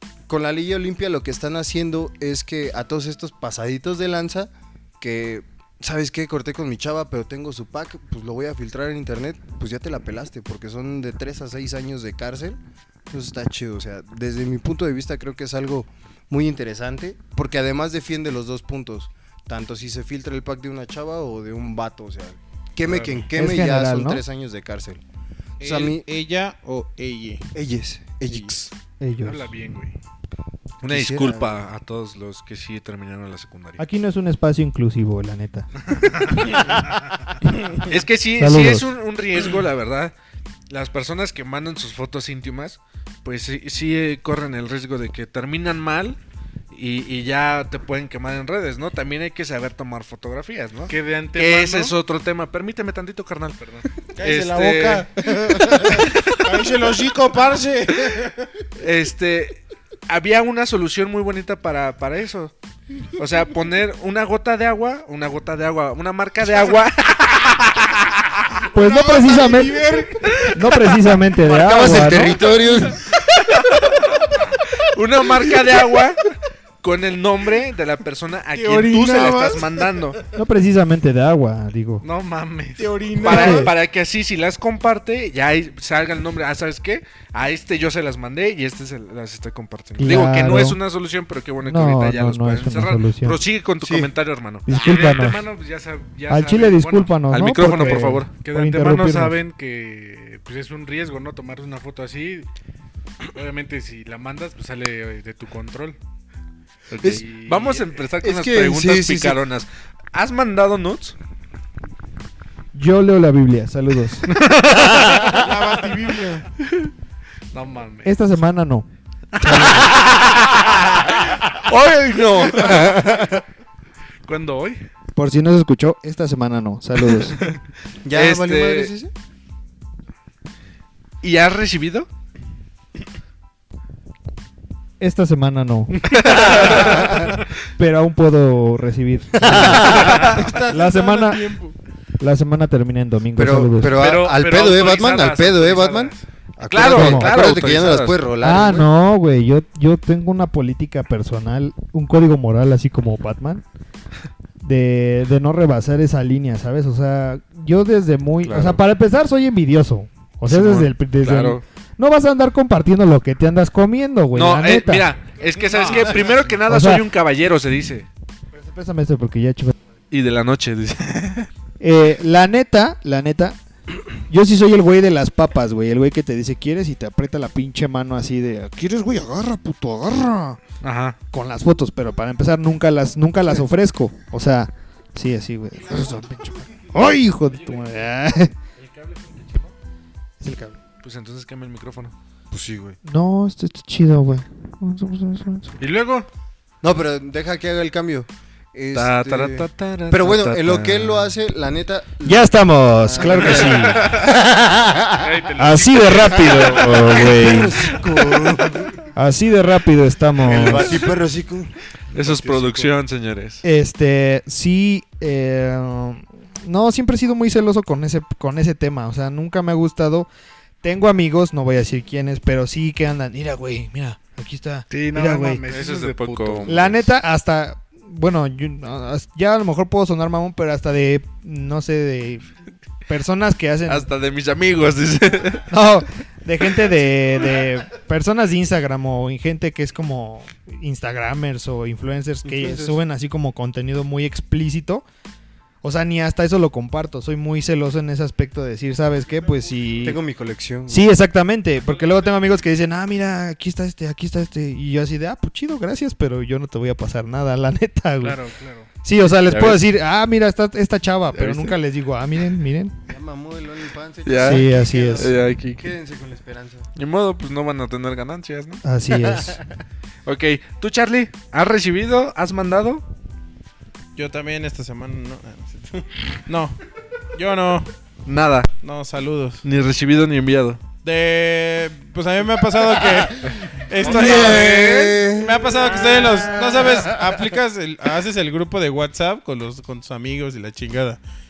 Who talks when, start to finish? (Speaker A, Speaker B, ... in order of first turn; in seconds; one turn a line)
Speaker A: 0.3-25.0
Speaker B: 22.9-23.2
Speaker C: 23.3-24.2
Speaker A: 25.6-26.0
Speaker D: 25.6-27.5
Speaker A: 27.5-28.7
Speaker D: 28.3-28.6
Speaker C: 29.0-29.5
Speaker B: 29.2-30.0
Speaker A: 30.8-31.6
Speaker E: 30.8-33.8
Speaker C: 33.8-35.7
Speaker C: 36.2-36.6
Speaker E: 37.8-40.1
Speaker C: 38.4-38.9
Speaker E: 40.7-46.2
Speaker E: 46.7-56.4
Speaker B: 50.9-52.0
Speaker D: 54.1-58.5
Speaker E: 58.8-62.5
Speaker E: 63.1-68.3
Speaker D: 68.7-70.5
Speaker C: 68.7-72.4
Speaker A: 71.5-73.1
Speaker E: 71.5-72.5
Speaker E: 73.3-74.0
Speaker E: 74.6-76.2
Speaker E: 76.8-80.2
Speaker D: 78.5-79.9
Speaker C: 80.3-82.0
Speaker B: 82.0-83.0
Speaker D: 82.8-83.7
Speaker E: 83.2-94.8
Speaker C: 83.2-83.7
Speaker C: 90.0-90.8
Speaker C: 91.6-93.4
Speaker A: 93.8-94.1
Speaker C: 94.7-95.5
Speaker B: 94.7-102.5
Speaker C: 96.3-99.4
Speaker E: 97.3-98.4
Speaker B: 103.3-106.0
Speaker E: 106.9-111.2
Speaker B: 107.0-107.9
Speaker A: 108.2-109.4
Speaker C: 112.7-114.3
Speaker E: 114.3-115.2
Speaker D: 115.2-116.5
Speaker B: 117.5-118.3
Speaker C: 118.0-119.9
Speaker E: 119.5-123.2
Speaker B: 124.2-124.8
Speaker C: 125.2-127.4
Speaker A: 128.0-129.1
Speaker E: 128.1-128.9
Speaker E: 131.2-132.1
Speaker C: 135.0-141.5
Speaker E: 136.1-137.1
Speaker A: 136.4-137.3
Speaker A: 139.4-140.4
Speaker D: 140.1-141.8
Speaker C: 142.2-144.0
Speaker A: 143.3-148.9
Speaker B: 143.9-146.3
Speaker E: 146.7-148.3
Speaker C: 146.8-147.3
Speaker C: 148.4-153.6
Speaker C: 154.6-165.1
Speaker E: 158.4-158.8
Speaker E: 160.5-161.6
Speaker E: 164.3-168.1
Speaker B: 165.7-166.5
Speaker C: 166.6-167.1
Speaker C: 168.5-169.7
Speaker E: 170.1-171.5
Speaker C: 171.8-180.6
Speaker B: 180.8-181.2
Speaker C: 181.3-188.5
Speaker B: 188.8-189.7
Speaker C: 190.4-190.8
Speaker E: 191.0-192.1
Speaker A: 192.5-193.0
Speaker C: 193.0-195.8
Speaker B: 195.8-196.3
Speaker A: 196.8-204.3
Speaker E: 198.9-201.3
Speaker C: 202.2-204.9
Speaker B: 203.2-204.3
Speaker E: 203.6-203.8
Speaker B: 205.2-207.1
Speaker C: 205.6-207.9
Speaker E: 206.6-207.7
Speaker A: 207.0-209.0
Speaker C: 209.1-211.1
Speaker A: 210.4-211.7
Speaker E: 212.1-213.6
Speaker B: 212.2-212.9
Speaker C: 213.6-220.3
Speaker C: 220.8-225.6
Speaker B: 224.9-226.9
Speaker E: 225.7-227.1
Speaker C: 226.7-232.4
Speaker C: 233.1-234.1
Speaker E: 233.9-235.7
Speaker C: 235.7-245.0
Speaker A: 242.4-243.0
Speaker C: 245.8-250.2
Speaker A: 250.0-251.1
Speaker C: 250.9-258.4
Speaker B: 258.2-258.9
Speaker C: 259.0-262.9
Speaker E: 259.5-259.8
Speaker E: 261.3-261.8
Speaker A: 263.1-266.9
Speaker E: 264.2-265.9
Speaker C: 264.4-265.3
Speaker E: 266.9-268.8
Speaker C: 268.8-269.6
Speaker E: 270.2-273.0
Speaker D: 274.1-276.8
Speaker D: 277.3-277.9
Speaker E: 278.2-278.7
Speaker D: 278.8-279.6
Speaker E: 279.6-280.8
Speaker D: 281.0-291.2
Speaker A: 283.5-286.1
Speaker E: 284.0-285.2